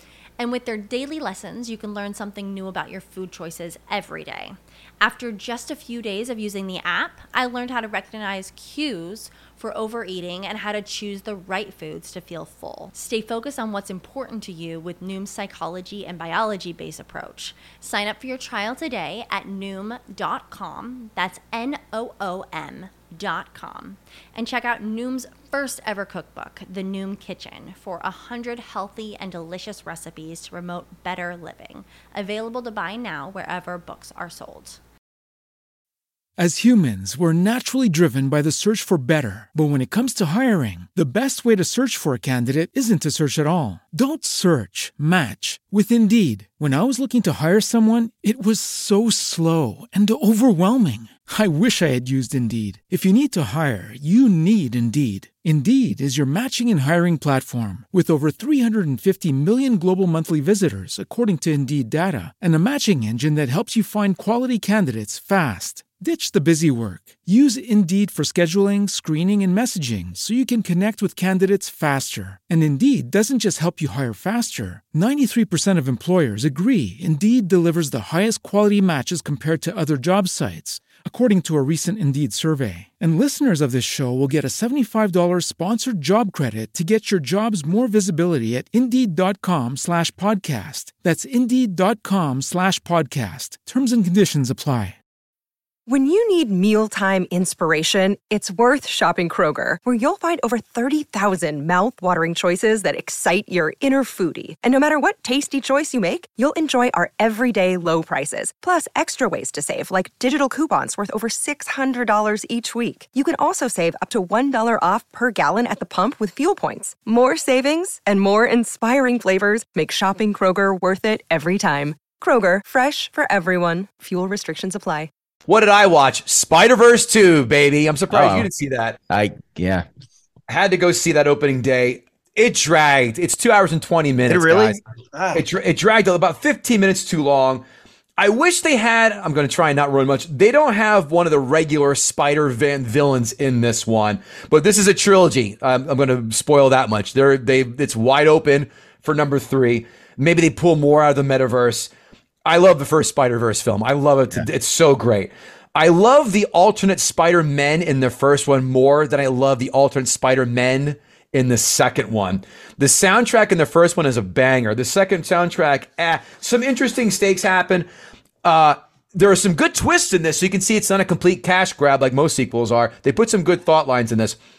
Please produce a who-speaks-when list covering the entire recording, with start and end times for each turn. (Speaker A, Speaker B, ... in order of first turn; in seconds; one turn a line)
Speaker A: 0.4-34.8
Speaker B: 36.4-95.0
Speaker C: 95.9-125.1
Speaker D: 125.5-129.0
Speaker E: 128.1-128.5
Speaker E: 129.1-129.8
Speaker D: 130.5-134.8
Speaker E: 134.3-135.4
Speaker D: 135.3-137.6
Speaker D: 138.2-151.9
Speaker D: 152.5-167.9
Speaker D: 168.4-174.4